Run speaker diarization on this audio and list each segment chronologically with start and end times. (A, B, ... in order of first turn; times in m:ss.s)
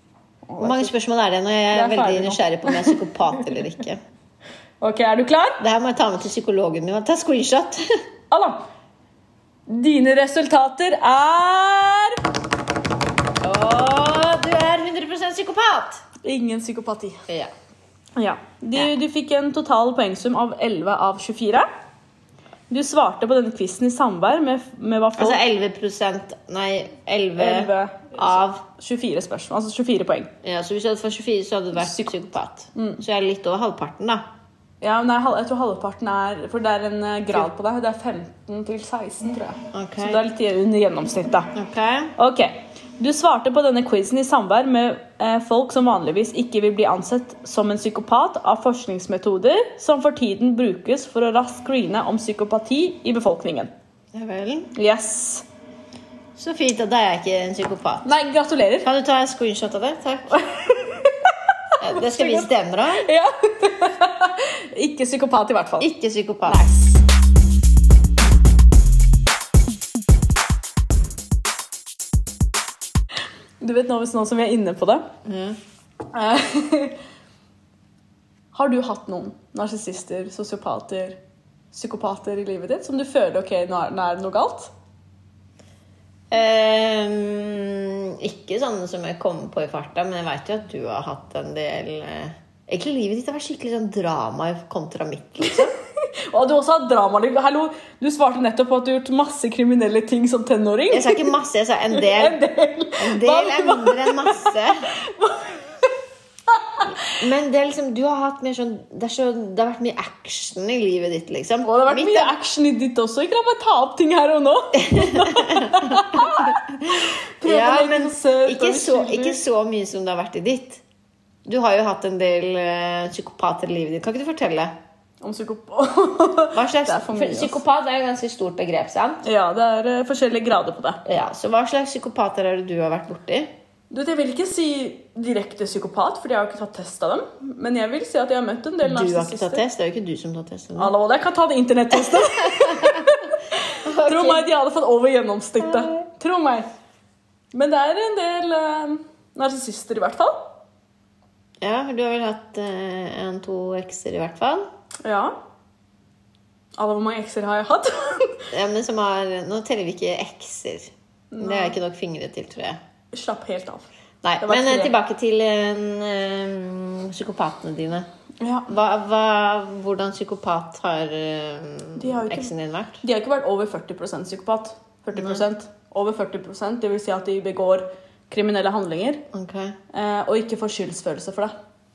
0:00.4-0:00.9 A
0:00.6-0:04.0 B
0:01.7-0:03.6 A
0:04.8-0:05.6 A
0:05.6-0:07.8 B
0:08.3-0:08.6 A
0:09.7-0:12.2 A
0:13.4-0:16.0 B
0:16.2-0:17.2 A
0:17.3-0:17.5 B
0:18.2-0:21.7 A
0:22.7-0:25.4 A
0:25.2-0:28.6 B
0:27.4-0:30.3 A
0:30.4-0:34.2 B
0:31.8-0:32.1 A
0:32.7-0:33.0 A
0:34.8-0:41.5 A
0:39.7-0:40.2 B
0:41.5-0:42.1 B
0:42.2-0:53.7 A
0:54.1-0:54.7 B
0:54.7-0:55.4 A
0:56.4-0:58.1 B
0:58.0-0:58.9 A
0:58.8-1:00.3 B
1:00.3-1:05.9 A
1:01.8-1:03.1 B
1:05.8-1:06.6 B
1:06.4-1:06.8 A
1:13.6-1:15.1 A
1:15.2-1:15.6 B
1:16.1-1:17.0 A
1:18.5-1:21.2 A
1:21.7-1:24.7 A
1:26.3-1:35.7 B
1:35.5-1:41.3 A
1:40.9-1:42.4 B
1:41.9-1:45.7 A
1:43.0-1:44.8 B
1:46.5-1:47.2 A
1:46.9-1:52.3 B
1:51.6-1:59.4 A
1:54.8-2:00.8 B
2:01.4-2:04.7 B
2:05.2-2:07.6 A
2:06.5-2:09.2 B
2:09.2-2:11.0 A
2:11.0-2:13.5 B
2:13.9-2:19.6 A
2:18.8-2:20.9 B
2:20.8-2:26.7 A
2:22.1-2:23.1 B
2:23.8-2:24.5 B
2:25.6-2:26.0 B
2:27.5-2:30.5 A
2:31.6-2:34.6 B
2:35.0-2:35.4 A
2:36.8-2:38.5 A
2:38.5-2:42.8 B
2:41.3-2:41.7 A
2:43.1-2:43.8 A
2:44.2-2:48.1 B
2:44.4-2:44.9 A
2:48.4-2:48.7 A
2:48.7-2:53.0 B
2:52.0-2:59.2 A
2:55.2-2:55.4 B
2:59.3-2:59.8 B
2:59.9-3:01.5 A